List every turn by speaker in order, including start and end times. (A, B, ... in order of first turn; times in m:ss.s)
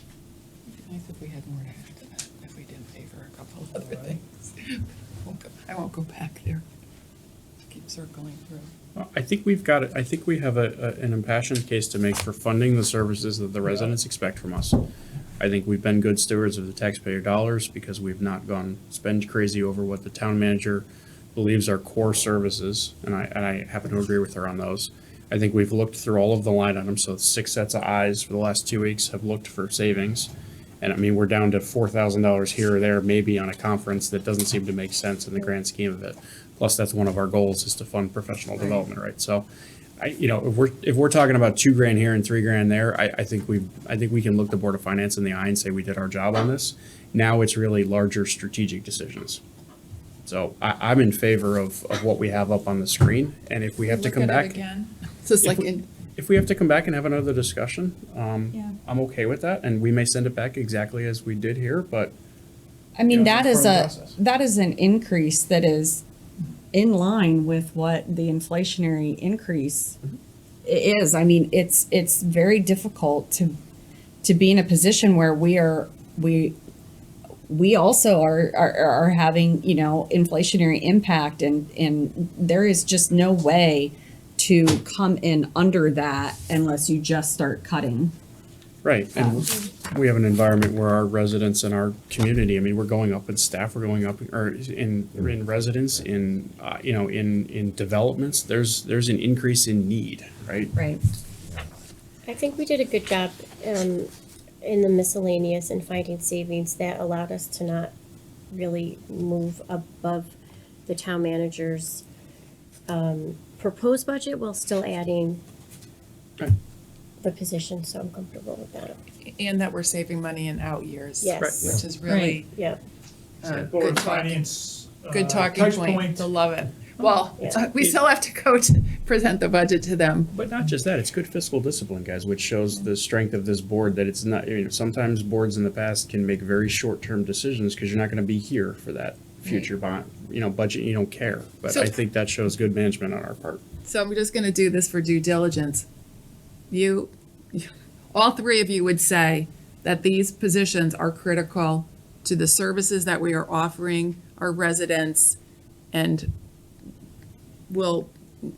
0:00.7-0:06.6 A
0:03.8-0:04.2 B
0:07.7-0:08.7 A
0:09.0-0:14.8 C
0:15.4-0:30.3 C
0:30.8-0:39.5 C
0:40.0-0:49.4 C
0:50.3-0:54.6 C
0:53.8-0:55.9 A
0:56.2-1:02.1 C
1:03.0-1:06.0 D
1:03.1-1:04.2 C
1:06.7-1:10.0 D
1:10.6-1:13.6 D
1:14.2-1:16.6 D
1:17.5-1:28.1 D
1:28.8-1:40.7 C
1:29.2-1:29.5 D
1:40.7-1:41.0 D
1:42.3-1:44.1 E
1:44.6-1:47.9 E
1:48.5-1:50.4 E
1:50.9-1:52.0 E
1:52.9-1:55.4 E
1:57.2-1:59.0 E
1:59.2-2:02.5 A
2:01.2-2:01.6 E
2:02.1-2:02.4 D
2:02.5-2:02.8 E
2:03.4-2:04.5 A
2:03.7-2:06.3 B
2:05.1-2:10.3 A
2:07.4-2:07.6 E
2:10.3-2:23.6 C
2:21.7-2:21.9 A
2:23.8-2:25.9 A
2:26.7-2:35.4 A
2:35.9-2:36.3 A
2:37.7-2:38.1 A